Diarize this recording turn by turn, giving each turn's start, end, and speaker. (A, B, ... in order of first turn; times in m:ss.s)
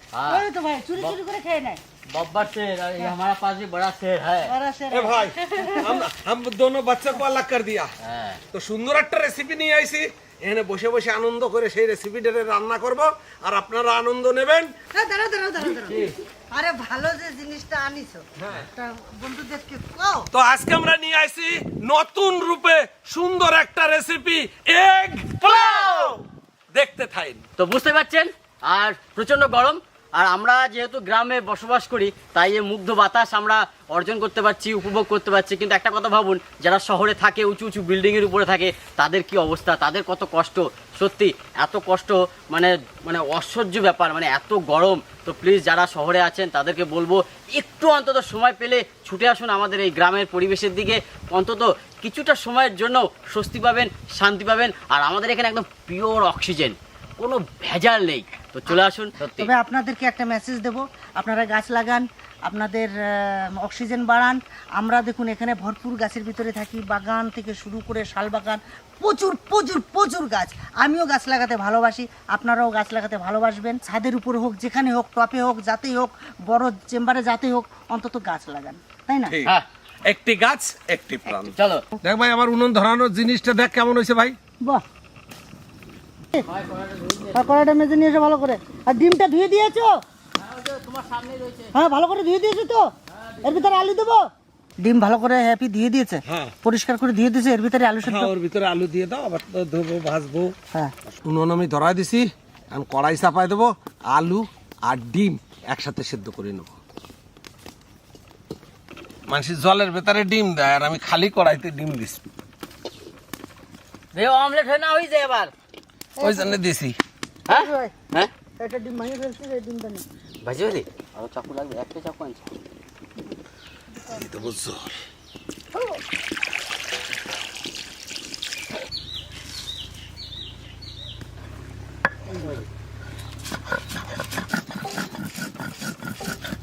0:00.1-0:00.4 A
0:00.3-0:01.8 B
0:02.1-0:04.5 A
0:04.4-0:06.1 B
0:04.9-0:07.9 C
0:08.0-0:08.4 A
0:08.5-0:14.8 C
0:14.9-0:20.3 B
0:20.3-0:27.4 C
0:27.6-0:59.5 A
0:59.4-1:19.4 B
1:20.0-1:24.4 C
1:21.3-1:21.8 A
1:26.4-1:27.6 A
1:27.3-1:30.0 B
1:30.4-1:31.7 A
1:31.8-1:32.9 B
1:33.3-1:33.8 A
1:33.4-1:34.3 B
1:34.8-1:38.3 B
1:36.3-1:36.5 C
1:38.0-1:40.6 C
1:41.2-1:46.8 C
1:49.3-1:52.2 C
1:54.1-1:55.5 A
1:56.2-1:56.6 B
1:56.2-1:57.0 C
1:57.5-1:58.3 A
1:57.5-1:57.9 B
1:58.6-2:00.0 B
2:00.4-2:02.5 A
2:04.1-2:05.0 C